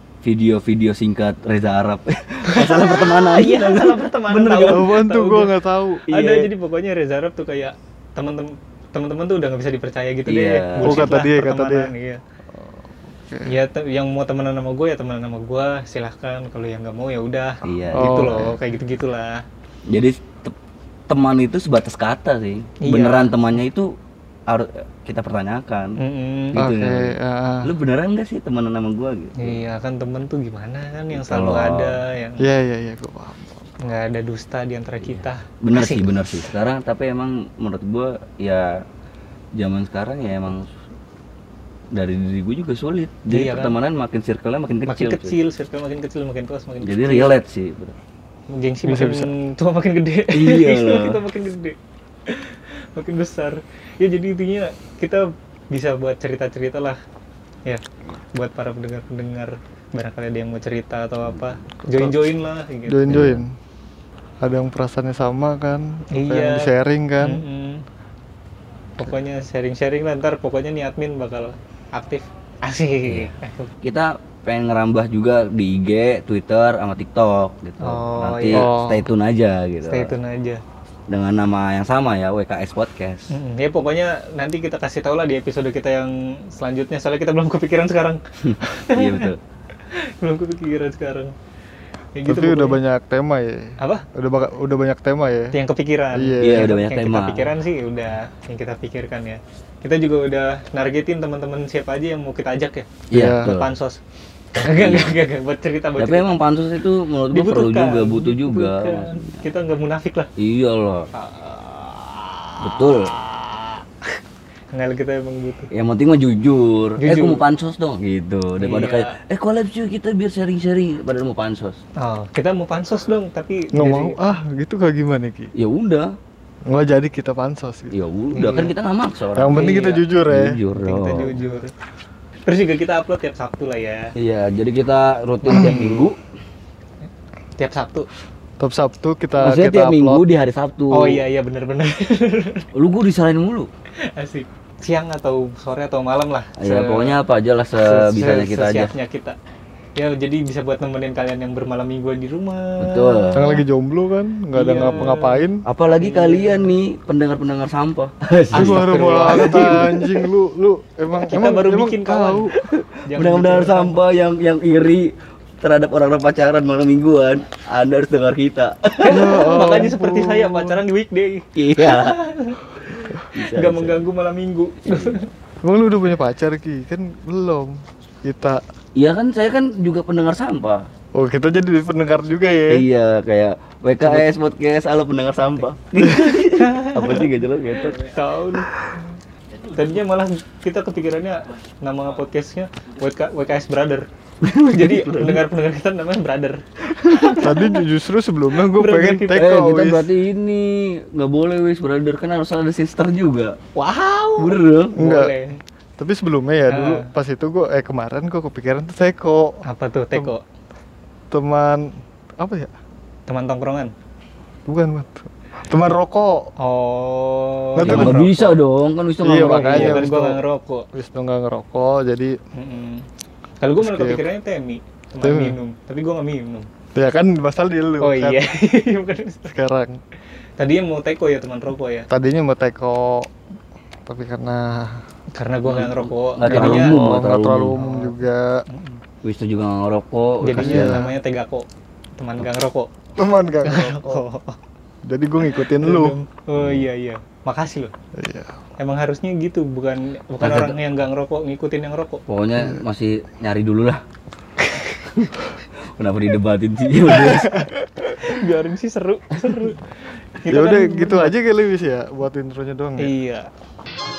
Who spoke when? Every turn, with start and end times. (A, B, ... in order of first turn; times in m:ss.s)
0:00.2-0:05.0 A
0:02.5-0:05.6 B
0:04.6-0:06.0 C
0:06.1-0:06.5 A
0:06.1-0:12.2 B
0:10.2-0:11.2 A
0:10.8-0:11.9 C
0:13.2-0:13.5 C
0:13.4-0:19.4 B
0:17.6-0:18.4 A
0:17.9-0:18.6 C
0:19.9-0:20.5 A
0:21.1-0:23.9 A
0:22.8-0:23.3 B
0:24.5-0:26.0 A
0:26.0-0:26.6 B
0:26.5-0:29.6 A
0:26.6-0:27.7 C
0:29.4-0:32.4 B
0:31.1-0:32.0 A
0:32.4-0:33.6 C
0:33.8-0:36.1 B
0:35.0-0:38.8 A
0:39.6-0:40.7 A
0:41.9-0:45.4 A
0:43.3-0:43.8 B
0:44.9-0:47.4 B
0:46.8-0:48.0 A
0:48.5-0:51.8 B
0:48.8-0:49.3 C
0:50.3-0:51.2 A
0:52.3-0:57.0 B
0:58.3-1:03.2 B
1:02.9-1:03.6 C
1:03.1-1:03.4 A
1:04.4-1:07.4 C
1:06.1-1:07.8 B
1:09.0-1:13.7 B
1:13.0-1:13.3 A
1:13.8-1:20.1 A
1:17.8-1:18.7 B
1:18.5-1:19.1 C
1:19.8-1:20.6 B
1:21.1-1:23.3 A
1:23.3-1:29.3 B
1:28.4-1:29.4 A
1:29.9-1:31.3 B
1:32.1-1:32.8 B
1:32.2-1:35.6 C
1:33.8-1:34.0 B
1:35.5-1:44.0 B
1:36.1-1:36.7 C
1:36.4-1:37.5 A
1:43.1-1:43.7 A
1:43.1-1:43.5 C
1:44.6-1:46.3 B
1:44.6-1:45.2 A
1:46.0-1:49.4 A
1:47.3-1:50.3 B
1:50.4-1:51.1 A
1:51.1-1:54.1 B
1:52.6-1:53.1 A
1:54.7-1:55.7 B
1:55.7-2:01.8 A
1:57.0-1:57.4 B
1:58.6-1:59.2 B
2:02.0-2:04.2 B
2:03.7-2:05.5 C
2:05.6-2:06.1 A
2:06.7-2:07.9 C
2:07.9-2:09.7 A
2:08.3-2:08.7 B
2:09.3-2:10.6 C
2:09.5-2:10.1 B
2:10.2-2:11.4 A
2:10.8-2:11.7 B
2:12.5-2:14.1 B
2:14.2-2:16.2 A
2:15.5-2:16.0 B
2:15.5-2:15.9 C
2:17.6-2:18.1 B
2:18.6-2:20.2 C
2:19.4-2:21.2 A
2:20.9-2:22.7 B
2:22.7-2:23.7 A
2:24.1-2:27.2 B
2:26.6-2:28.9 A
2:27.8-2:29.4 B
2:30.0-2:33.6 B
2:32.8-2:33.5 A
2:33.3-2:35.6 C
2:34.5-2:35.4 B
2:34.8-2:35.1 A
2:35.6-2:39.8 A
2:36.0-2:36.7 B
2:38.5-2:40.2 B
2:38.5-2:42.5 C
2:41.3-2:44.0 B
2:42.8-2:49.8 A
2:49.0-2:55.3 B
2:49.1-2:50.8 C
2:51.6-2:52.2 A
2:53.0-2:54.1 A
2:54.9-2:55.2 A
2:55.6-2:58.6 C
2:59.0-3:00.8 A
3:01.1-3:02.9 C
3:02.7-3:08.1 A
3:06.0-3:06.3 C
3:06.6-3:07.3 B
3:07.9-3:08.7 B
3:09.7-3:14.0 B
3:14.4-3:15.4 A
3:14.7-3:17.8 B
3:17.0-3:17.4 A
3:17.4-3:20.1 C
3:18.7-3:19.5 B
3:19.3-3:23.6 A
3:23.8-3:25.6 B
3:24.4-3:25.0 A
3:25.0-3:25.3 C
3:26.0-3:29.6 C
3:26.7-3:27.1 B
3:29.6-3:30.4 B
3:31.3-3:32.7 C
3:33.3-3:33.9 B
3:34.6-3:36.5 C
3:36.6-3:38.6 B
3:37.8-3:38.2 C
3:37.8-3:40.1 A
3:39.2-3:40.4 C
3:39.7-3:40.8 B
3:40.9-3:42.3 C
3:42.5-3:43.0 B
3:43.6-3:46.7 B
3:43.8-3:44.2 C
3:45.2-3:45.6 C
3:46.9-3:48.5 C
3:48.0-3:49.5 B
3:49.5-3:50.0 C
3:50.6-3:52.0 B
3:52.1-3:53.3 C
3:54.0-3:55.0 C
3:55.3-3:57.0 B
3:55.6-3:57.8 A
3:56.4-3:58.6 C
3:57.8-3:59.0 B
3:59.2-4:01.0 A
4:00.4-4:01.6 B
4:00.5-4:01.1 C
4:02.2-4:02.9 B
4:03.2-4:04.2 C
4:03.6-4:04.6 B
4:05.0-4:06.2 C
4:05.5-4:07.9 B
4:06.6-4:06.9 A
4:08.2-4:08.5 C
4:08.8-4:12.2 B
4:10.4-4:10.8 A
4:12.3-4:14.0 A
4:15.1-4:17.7 A
4:17.3-4:17.9 C
4:18.0-4:19.8 B
4:20.4-4:21.3 B
4:20.5-4:23.1 C
4:23.0-4:23.5 B